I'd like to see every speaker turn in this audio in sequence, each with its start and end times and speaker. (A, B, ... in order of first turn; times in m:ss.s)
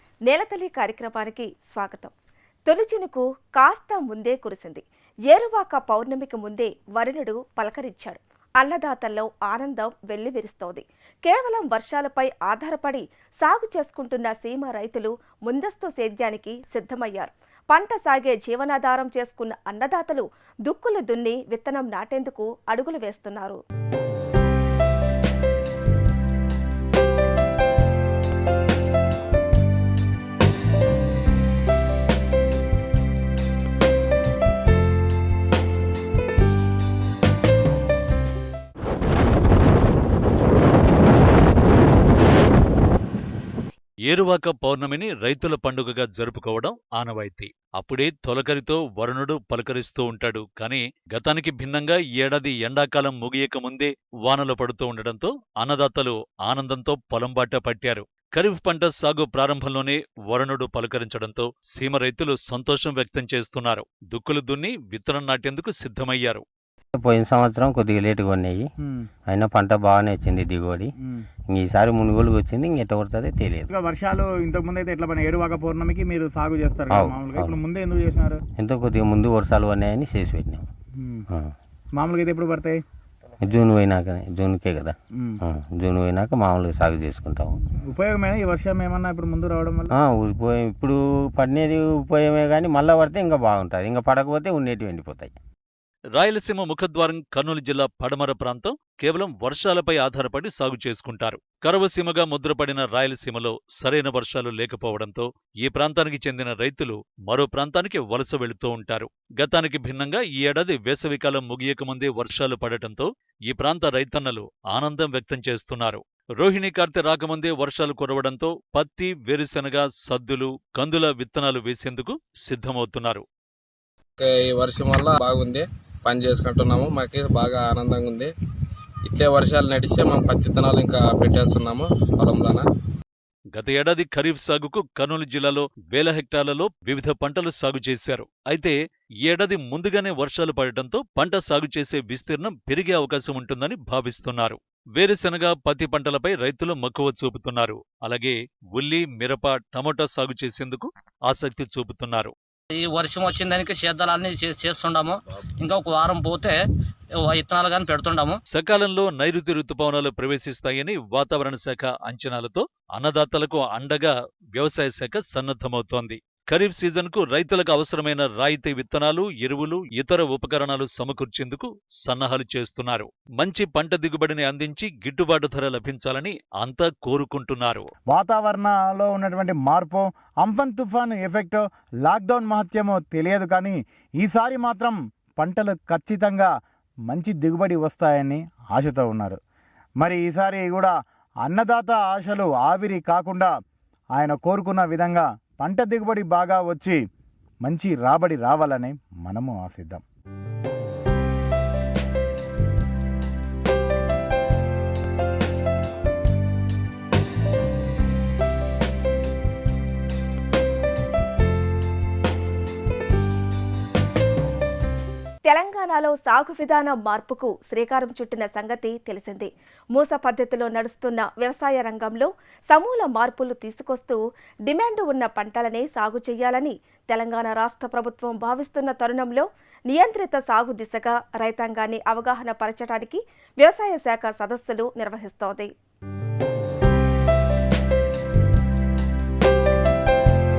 0:00.3-0:02.1 A
0:02.7-0:23.6 A
0:44.1-1:06.4 B
1:07.0-1:08.7 C
1:09.3-1:10.9 C
1:11.5-1:13.7 C
1:13.7-1:18.4 D
1:16.9-1:17.6 C
1:18.6-1:20.7 C
1:21.0-1:21.2 D
1:22.0-1:22.8 D
1:23.4-1:27.6 C
1:27.8-1:29.9 D
1:29.9-1:35.3 C
1:36.2-2:03.2 B
2:04.2-2:08.3 E
2:09.0-2:12.7 E
2:13.5-2:32.3 B
2:32.7-2:36.6 F
2:37.2-2:38.4 F
2:38.5-2:57.8 B
2:58.1-3:06.5 D
3:07.1-3:09.4 D
3:10.0-3:13.5 D
3:14.1-3:17.0 D
3:17.6-3:20.0 D
3:35.4-3:55.7 A